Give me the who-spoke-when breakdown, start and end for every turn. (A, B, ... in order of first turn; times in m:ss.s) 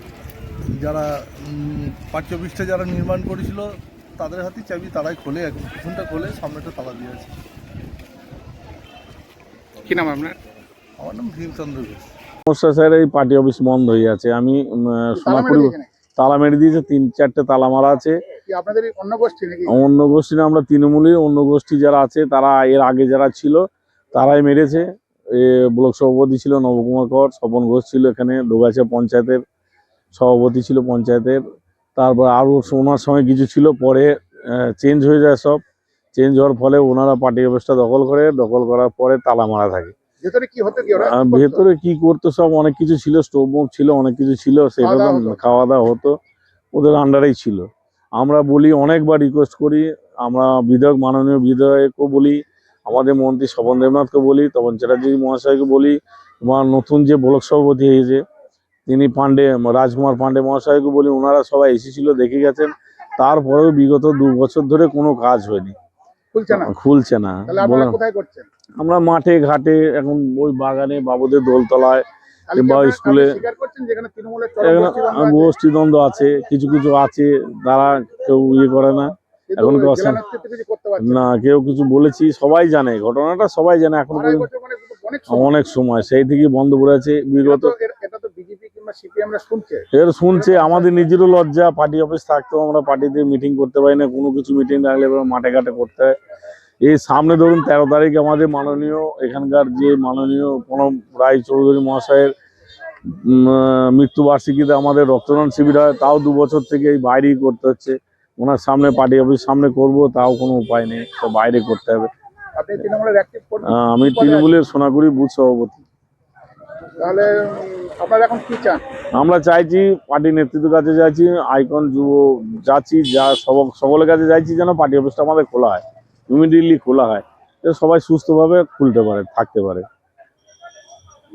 0:00.7-0:07.3 A
0:09.9-0:10.4 B
0:11.0-0:12.1 A
0:12.5-0:18.2 C
0:15.2-0:15.9 B
0:18.5-0:19.7 B
0:19.7-0:23.6 C
0:24.1-0:24.8 C
0:25.4-0:29.4 C
0:30.1-0:31.4 C
0:32.0-0:35.6 C
0:36.2-0:39.9 C
0:40.2-0:41.6 B
0:41.1-0:46.1 C
0:44.8-0:45.4 B
0:46.7-0:58.2 C
0:58.9-1:05.8 C
1:06.3-1:06.7 B
1:06.6-1:08.0 C
1:07.5-1:08.5 B
1:08.8-1:12.0 C
1:12.5-1:15.5 B
1:12.6-1:13.4 C
1:14.6-1:20.2 C
1:19.6-1:21.2 B
1:21.0-1:24.4 C
1:24.1-1:25.6 B
1:25.3-1:27.7 C
1:27.4-1:29.8 B
1:29.9-1:36.1 C
1:30.3-1:30.8 B
1:36.8-1:42.3 C
1:43.3-1:52.1 C
1:52.6-1:54.5 B
1:53.7-1:55.8 C
1:57.0-1:58.8 B
1:59.2-2:09.8 C